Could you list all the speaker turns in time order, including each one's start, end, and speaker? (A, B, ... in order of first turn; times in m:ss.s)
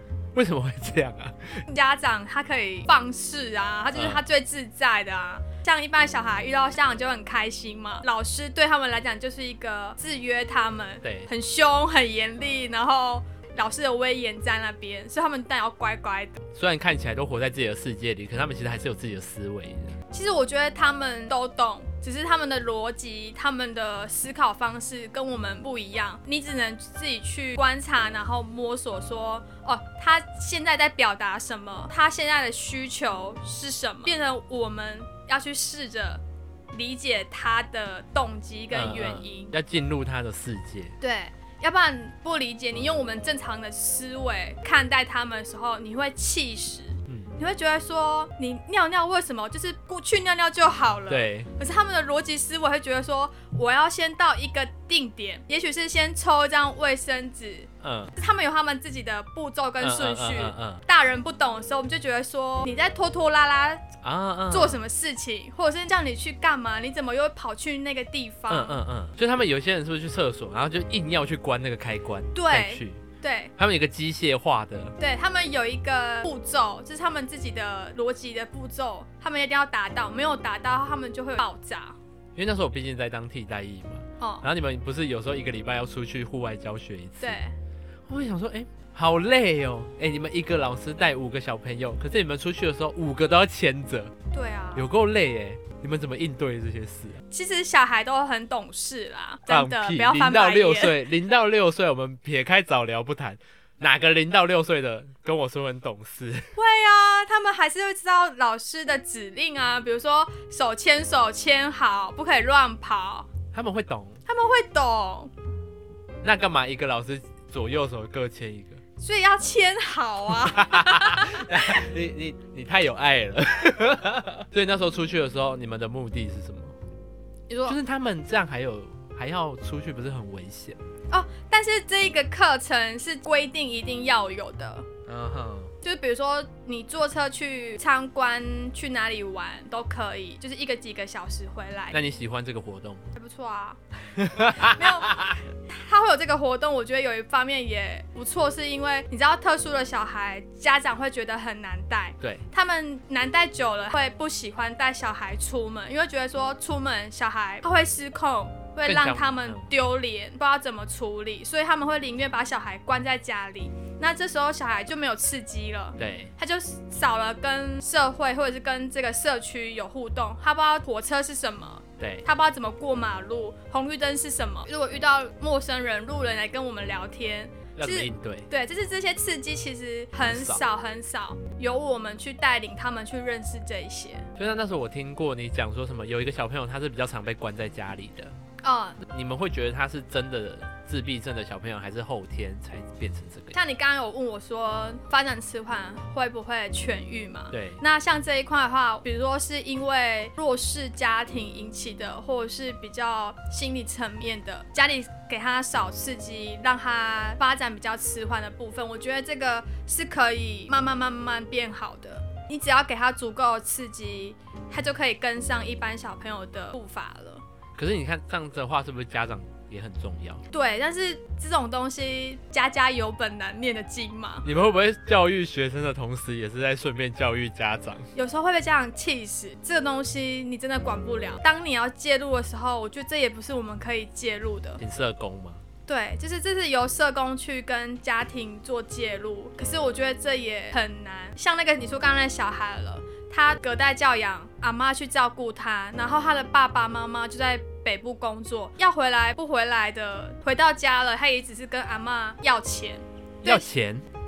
0:00.3-0:01.6 A
0:01.7-0:16.4 B
0:03.9-0:04.2 A
0:11.0-0:11.3 A
0:16.5-0:20.0 A
0:20.1-0:39.5 B
0:38.7-0:40.9 A
0:41.0-1:03.8 B
0:47.1-0:47.3 A
0:51.1-0:51.5 A
0:57.8-0:58.1 A
0:59.8-1:00.8 A
1:04.0-1:04.8 A
1:04.5-1:08.8 B
1:08.5-1:13.0 A
1:12.3-1:13.5 B
1:13.6-1:15.0 A
1:15.0-1:22.0 B
1:22.4-1:27.4 A
1:24.2-1:24.4 B
1:27.2-1:27.5 B
1:28.1-1:34.1 A
1:34.3-1:34.9 B
1:34.7-1:37.2 A
1:37.3-1:41.0 B
1:39.5-1:46.5 A
1:46.5-1:53.3 B
1:53.5-1:54.2 A
1:54.3-1:55.3 B
1:56.2-1:58.8 A
1:59.0-2:01.8 B
2:00.4-2:06.7 A
2:07.5-2:07.8 B
2:07.6-2:10.8 A
2:11.1-2:14.9 B
2:15.1-2:15.7 A
2:15.8-2:22.0 B
2:21.9-2:23.1 A
2:23.1-2:23.8 B
2:24.2-2:25.4 A
2:24.4-3:04.3 B
2:38.8-2:39.7 A
2:46.0-2:46.3 A
2:52.0-2:52.2 A
2:57.8-2:58.5 A
3:00.2-3:00.6 A
3:04.4-3:08.3 A
3:08.6-3:09.0 B
3:09.0-3:13.6 A
3:13.5-3:37.4 B
3:17.5-3:17.8 A
3:37.8-3:40.4 A
3:40.5-3:44.4 B
3:44.4-3:48.1 A
3:48.1-3:54.8 B
3:54.8-3:55.6 A
3:55.9-4:13.7 B
4:13.4-4:14.0 A